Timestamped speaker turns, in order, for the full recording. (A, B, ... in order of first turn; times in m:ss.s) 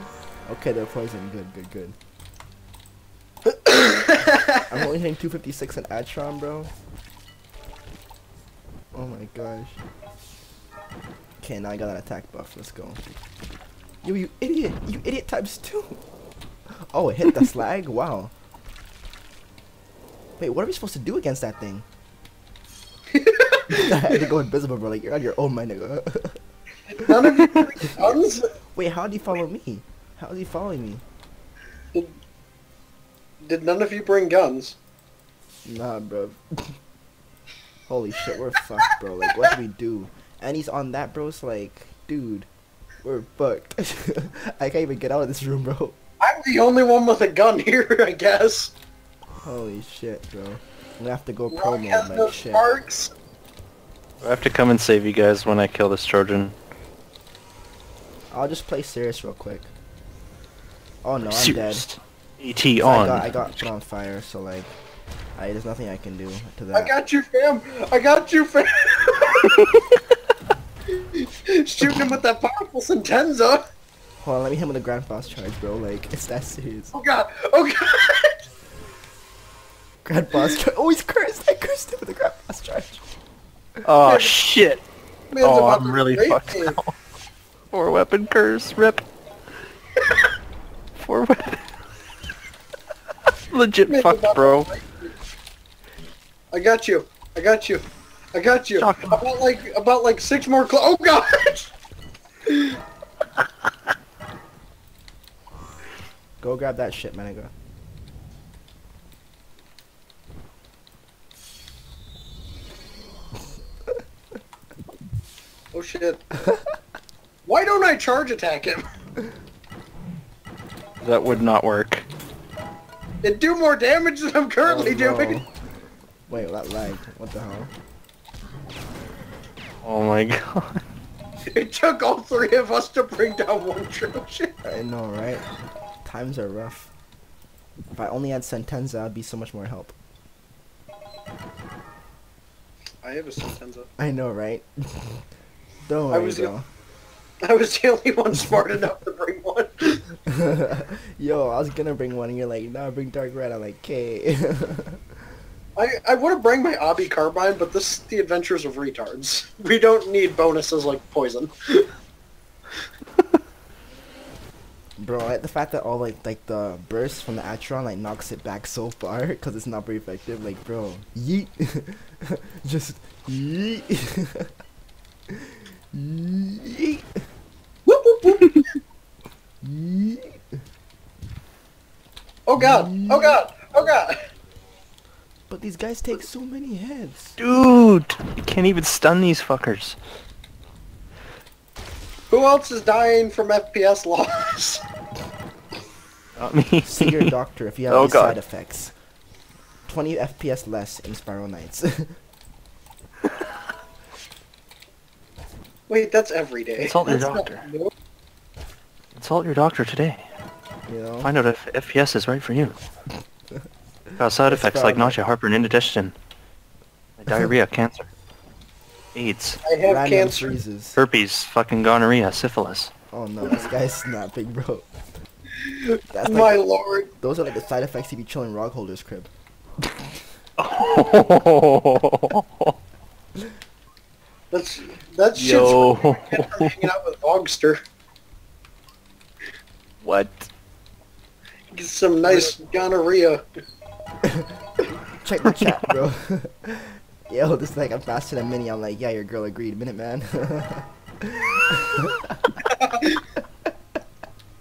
0:00.4-0:02.0 A
0:03.7-0:04.4 B
0:04.6-0:06.7 A
0:08.9-0:09.8 A
0:11.4-0:13.1 A
0:14.0-0:16.0 A
0:16.8-0:18.3 A
0:20.4-0:21.8 A
0:23.1-0:24.0 B
0:23.7-0:26.4 A
0:26.9-0:28.5 B
0:27.3-0:27.6 C
0:28.7-0:31.0 A
0:33.4-0:34.8 B
0:35.6-0:36.8 A
0:37.9-0:42.5 A
0:43.0-0:46.0 A
0:46.2-0:48.7 B
0:49.4-0:52.7 A
0:51.5-0:53.1 B
0:54.2-0:56.5 C
0:58.3-0:59.7 A
1:01.0-1:01.8 A
1:01.3-1:03.3 C
1:02.8-1:04.7 A
1:05.4-1:06.9 A
1:06.7-1:09.7 B
1:09.5-1:09.8 C
1:10.9-1:13.6 B
1:14.2-1:16.9 A
1:16.9-1:18.4 B
1:20.0-1:23.0 A
1:23.8-1:24.8 C
1:24.0-1:24.4 B
1:25.3-1:26.8 B
1:25.4-1:26.9 C
1:27.7-1:29.0 C
1:31.0-1:31.7 C
1:33.5-1:34.7 C
1:33.9-1:35.1 B
1:36.5-1:41.7 B
1:38.8-1:39.2 C
1:42.4-1:42.8 B
1:46.4-1:47.5 A
1:55.7-1:56.2 B
1:57.4-1:58.8 B
2:01.0-2:02.0 C
2:03.2-2:05.4 B
2:04.6-2:05.4 A
2:06.3-2:07.7 A
2:09.8-2:10.8 C
2:11.5-2:14.5 B
2:14.6-2:15.5 A
2:16.0-2:16.9 A
2:17.9-2:19.9 A
2:23.0-2:23.9 B
2:24.0-2:25.2 A
2:25.8-2:26.6 A
2:26.1-2:26.5 B
2:27.4-2:30.1 B
2:30.2-2:35.0 A
2:35.8-2:41.9 B
2:45.0-2:54.5 A
2:55.3-2:57.2 A
2:57.8-2:58.5 B
2:58.3-2:58.6 C
2:59.6-3:00.6 A
3:02.5-3:04.2 B
3:02.6-3:03.4 A
3:05.5-3:07.4 A
3:07.4-3:10.0 C
3:12.3-3:14.8 B
3:16.4-3:17.3 C
3:16.8-3:18.9 A
3:17.9-3:18.4 C
3:19.8-3:22.2 A
3:25.9-3:27.9 B
3:26.8-3:27.6 C
3:29.1-3:30.3 C
3:30.9-3:31.3 A
3:31.2-3:32.8 C
3:34.2-3:36.1 C
3:34.5-3:35.2 A
3:37.2-3:38.1 C
3:39.1-3:39.6 C
3:39.6-3:40.6 B
3:39.8-3:41.0 A
3:41.0-3:42.9 C
3:43.1-3:44.9 A
3:45.5-3:47.1 B
3:46.1-3:46.6 A
3:47.2-3:49.3 A
3:50.6-3:52.8 C
3:54.5-3:57.8 B
3:55.3-3:56.9 C
4:00.0-4:00.5 C
4:01.7-4:03.4 B
4:04.2-4:04.5 A
4:05.2-4:12.7 A
4:12.6-4:13.2 B